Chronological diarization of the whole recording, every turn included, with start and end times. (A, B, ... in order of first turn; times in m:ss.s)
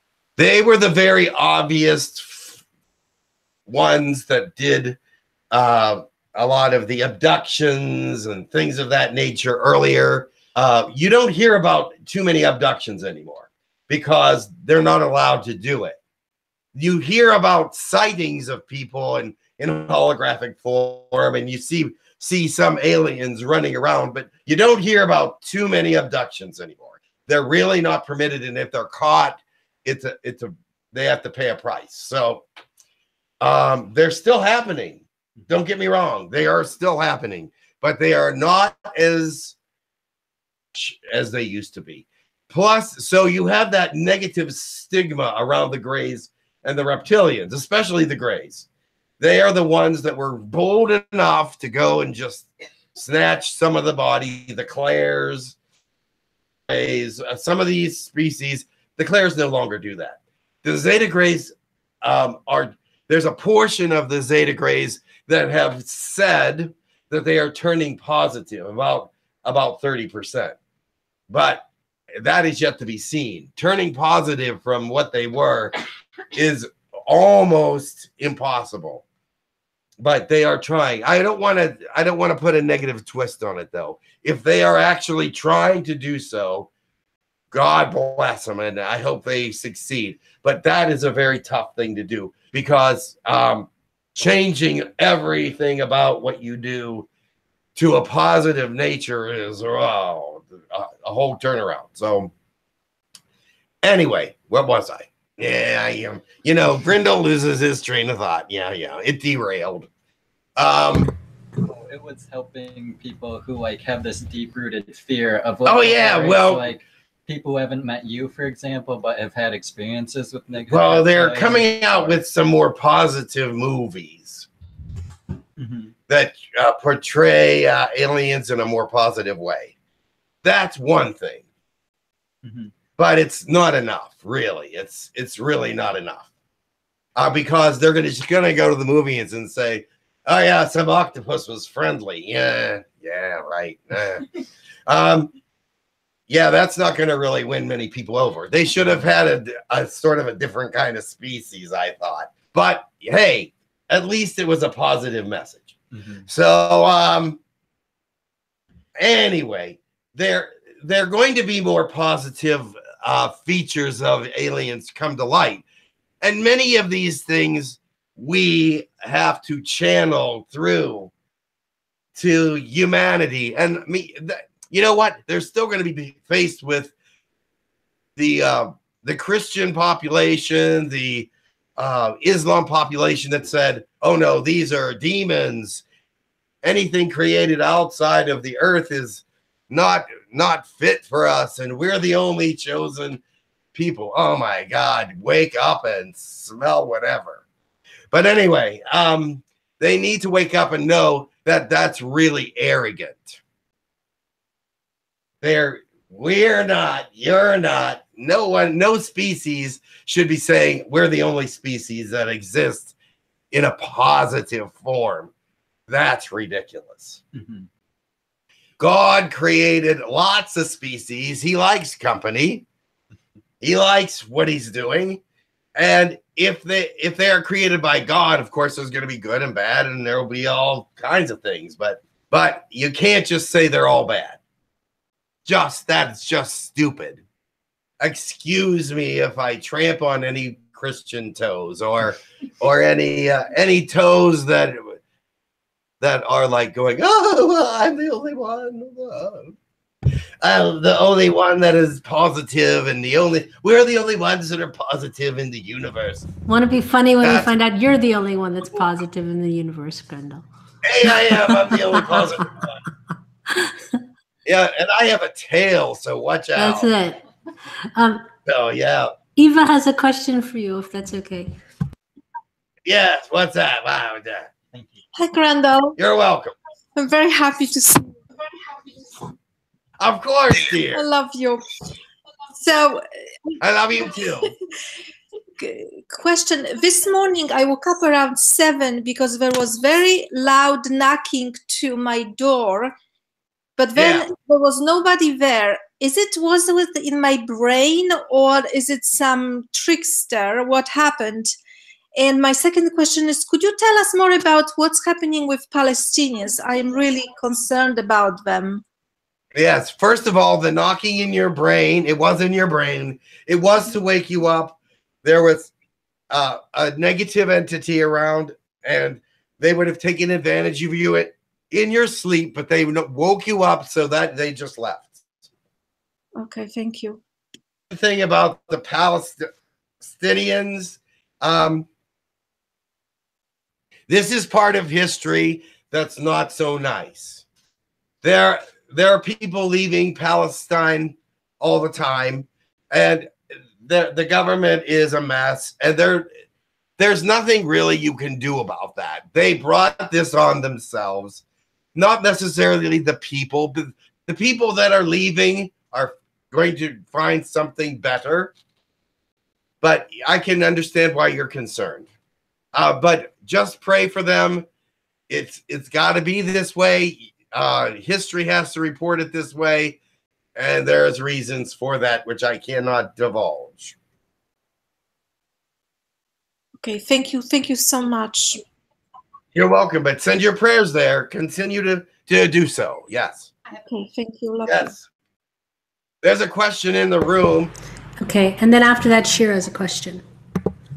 0:00.4-0:02.6 A
0:03.7-0:05.0 A
0:05.5-0:16.0 A
0:16.7-0:32.4 A
0:33.4-0:39.6 A
0:40.7-0:48.7 A
0:49.2-0:55.6 A
0:56.7-1:10.6 A
1:11.3-1:15.8 A
1:16.3-1:19.0 A
1:20.0-1:26.7 A
1:27.5-1:37.1 A
1:37.8-1:42.3 A
1:43.8-1:49.9 A
1:50.6-1:51.1 A
1:51.7-2:02.2 B
1:55.6-1:56.8 A
2:00.7-2:04.5 A
2:05.6-2:05.9 B
2:06.1-2:09.7 A
2:10.4-2:11.4 A
2:12.4-2:12.7 B
2:13.0-2:16.3 A
2:17.2-2:24.3 A
2:24.9-2:25.3 A
2:26.3-2:35.8 A
2:35.9-2:36.2 B
2:36.3-2:37.4 A
2:39.0-2:45.6 A
2:46.2-2:51.1 A
2:52.2-2:56.9 A
2:58.2-3:05.8 A
3:06.6-3:13.2 A
3:13.7-3:17.4 A
3:18.1-3:23.4 A
3:25.4-3:32.9 A
3:33.5-3:35.3 A
3:35.9-3:37.2 A
3:37.3-3:37.7 B
3:38.8-3:42.7 A
3:43.6-3:45.2 A
3:45.8-3:54.4 A
3:55.5-3:57.2 A
3:58.0-4:05.0 A
4:06.0-4:09.5 A
4:10.4-4:16.3 A
4:16.5-4:20.5 C
4:17.2-4:17.5 A
4:20.8-4:22.8 A
4:21.0-4:22.4 C
4:23.5-4:23.8 C
4:24.4-4:26.9 A
4:26.6-4:27.2 C
4:28.0-4:28.3 C
4:28.5-4:29.1 A
4:29.4-4:31.6 C
4:32.8-4:34.5 A
4:34.7-4:35.0 B
4:35.2-4:36.0 D
4:36.0-4:36.5 A
4:37.0-4:38.2 D
4:40.0-4:41.1 A
4:40.9-4:41.7 D
4:42.5-4:43.6 D
4:43.6-4:44.5 A
4:45.6-4:53.0 D
4:53.8-5:01.5 D
4:54.0-4:54.2 A
5:02.2-5:08.8 D
5:09.5-5:15.7 A
5:16.3-5:25.4 A
5:26.4-5:27.2 D
5:27.9-5:29.5 A
5:30.0-5:31.9 A
5:34.1-5:37.4 A
5:38.2-5:46.3 A
5:47.0-5:51.4 A
5:52.0-5:58.5 A
5:59.8-6:02.1 A
6:02.7-6:04.7 A
6:05.3-6:10.0 A
6:10.6-6:14.0 A
6:16.8-6:18.6 D
6:19.5-6:23.5 A
6:23.8-6:24.9 D
6:24.7-6:25.0 A
6:26.2-6:27.7 A
6:28.2-6:30.2 C